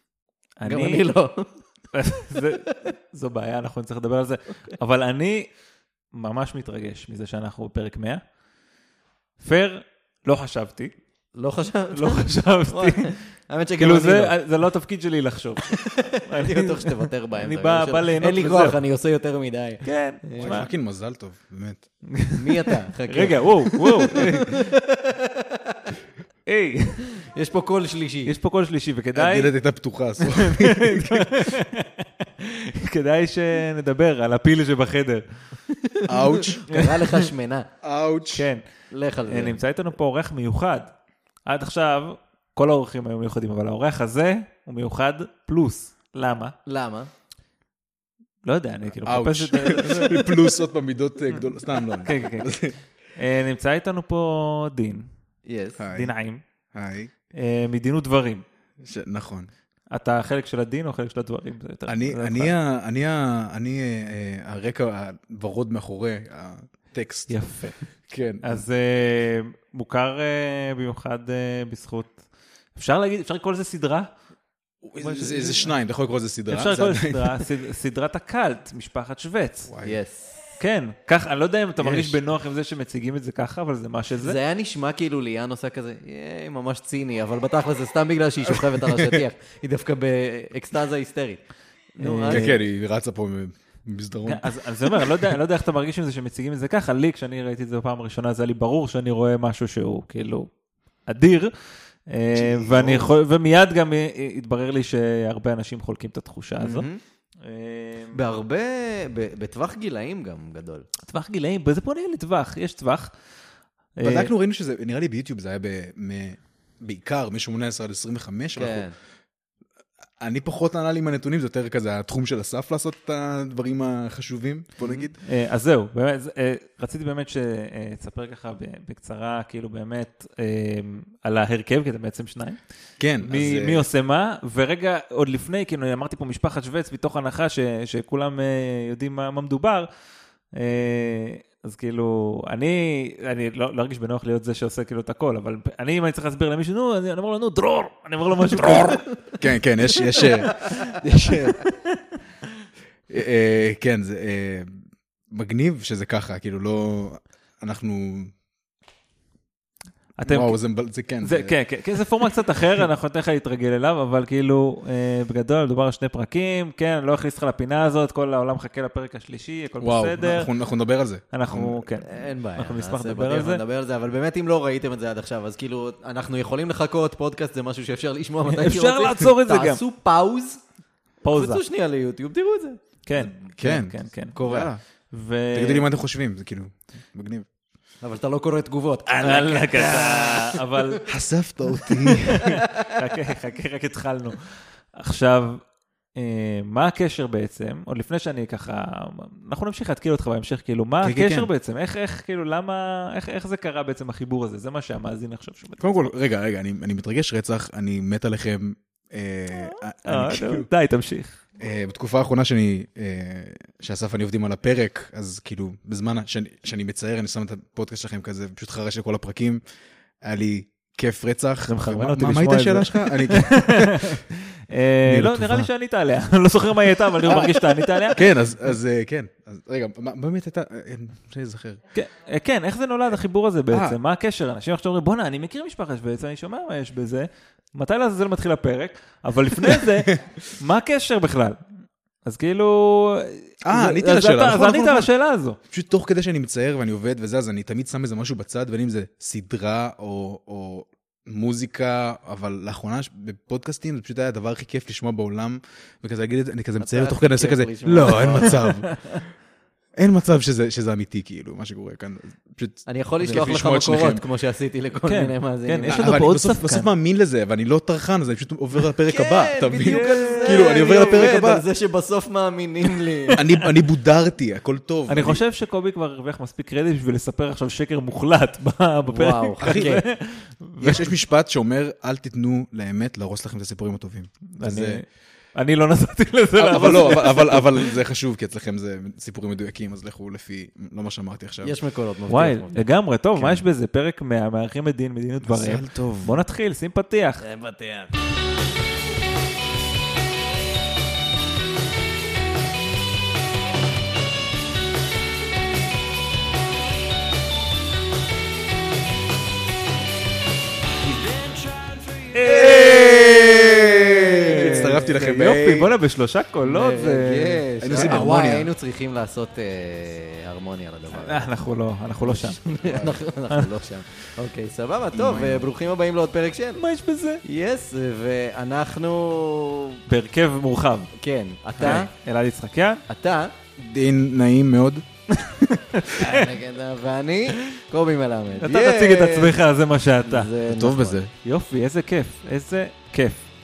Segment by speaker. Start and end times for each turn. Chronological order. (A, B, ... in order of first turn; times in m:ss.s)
0:00.6-0:01.1 A
0:00.7-0:01.5 B
0:01.9-0:05.5 A
0:06.1-0:08.2 A
0:09.4-0:11.0 A
0:11.4-0:14.4 B
0:11.9-0:13.2 A
0:13.8-0:18.8 A
0:15.7-0:20.6 B
0:19.8-0:20.7 A
0:20.4-0:21.9 C
0:22.1-0:24.7 A
0:22.4-0:25.9 B
0:26.5-0:27.0 A
0:27.2-0:28.4 B
0:28.3-0:29.6 A
0:29.2-0:31.5 C
0:30.2-0:35.2 A
0:35.7-0:37.7 B
0:36.1-0:36.6 C
0:36.7-0:37.3 A
0:37.8-0:38.5 C
0:38.3-0:38.6 A
0:38.9-0:39.6 B
0:39.3-0:40.9 A
0:41.5-0:46.6 A
0:46.7-0:47.1 B
0:48.4-0:50.6 A
0:48.9-0:52.8 C
0:52.0-0:52.6 A
0:53.2-0:55.1 A
0:55.5-0:55.8 B
0:55.8-0:56.1 C
0:55.9-0:56.4 A
0:56.7-0:57.1 C
0:57.3-0:58.4 A
0:58.8-0:59.5 C
0:59.9-1:02.5 A
1:01.9-1:07.3 C
1:07.3-1:07.8 A
1:08.1-1:08.6 C
1:08.4-1:12.2 A
1:12.8-1:14.1 A
1:14.8-1:17.3 C
1:15.0-1:15.7 A
1:16.5-1:19.7 A
1:19.7-1:20.0 C
1:19.8-1:20.4 B
1:20.6-1:24.4 A
1:21.8-1:22.2 C
1:24.2-1:31.4 B
1:28.5-1:29.2 C
1:32.0-1:32.6 B
1:32.0-1:32.5 A
1:32.3-1:35.4 C
1:34.3-1:40.5 A
1:41.1-1:41.5 A
1:42.1-1:46.9 A
1:42.4-1:43.1 C
1:46.6-1:47.0 B
1:47.4-1:48.2 A
1:48.1-1:50.9 B
1:51.0-1:53.1 A
1:54.0-1:54.3 A
1:54.0-1:58.9 C
1:58.6-1:59.0 B
2:00.2-2:05.2 C
2:05.2-2:12.6 A
2:13.0-2:13.9 C
2:13.2-2:19.9 A
2:20.6-2:29.1 A
2:29.4-2:31.7 C
2:30.1-2:31.9 A
2:33.1-2:34.7 C
2:35.3-2:38.3 C
2:40.2-2:40.6 A
2:40.2-2:41.6 C
2:41.2-2:50.5 A
2:49.8-2:51.8 C
2:51.3-2:53.6 A
2:52.0-3:00.6 B
2:58.5-2:59.8 A
3:01.2-3:01.6 A
3:01.3-3:03.5 B
3:03.1-3:05.9 A
3:03.6-3:04.8 C
3:04.4-3:04.7 B
3:05.5-3:07.5 C
3:08.0-3:10.6 B
3:09.2-3:11.1 A
3:11.1-3:12.6 C
3:12.1-3:12.9 B
3:12.3-3:15.6 A
3:16.2-3:26.1 A
3:21.0-3:21.5 C
3:25.8-3:30.7 C
3:29.6-3:31.4 A
3:31.6-3:39.6 C
3:40.2-3:44.2 C
3:41.7-3:48.2 A
3:45.0-3:45.7 C
3:47.3-3:47.5 C
3:48.1-3:51.8 C
3:51.9-4:01.6 A
3:53.7-3:54.0 C
3:59.6-4:00.2 C
4:02.2-4:05.6 A
4:03.6-4:05.1 C
4:05.6-4:19.2 C
4:16.8-4:18.8 B
4:18.5-4:19.2 A
4:20.0-4:24.2 C
4:22.9-4:26.1 B
4:25.0-4:26.9 A
4:25.8-4:31.6 C
4:29.1-4:33.4 B
4:29.8-4:30.7 A
4:33.4-4:35.4 C
4:35.1-4:41.0 A
4:39.1-4:40.1 B
4:39.6-4:40.0 C
4:40.8-4:45.0 C
4:44.6-4:48.0 A
4:46.6-4:51.8 C
4:51.6-4:52.9 B
4:52.3-4:57.4 A
4:53.4-4:53.6 C
4:55.4-4:56.4 C
4:57.4-4:58.2 B
5:11.2-5:15.2 B
5:12.3-5:13.3 A
5:12.4-5:15.9 C
5:14.4-5:18.3 A
5:16.6-5:21.5 B
5:17.8-5:18.7 C
5:21.1-5:22.6 A
5:22.2-5:26.8 B
5:22.9-5:23.2 C
5:25.1-5:25.7 C
5:26.8-5:27.4 A
5:27.4-5:30.0 B
5:30.1-5:31.1 A
5:31.2-5:32.1 B
5:31.8-5:33.0 A
5:33.1-5:33.5 B
5:33.8-5:35.0 C
5:35.4-5:36.5 A
5:36.2-5:39.6 B
5:38.6-5:40.5 A
5:40.2-5:41.2 B
5:40.6-5:41.3 C
5:41.4-5:43.5 A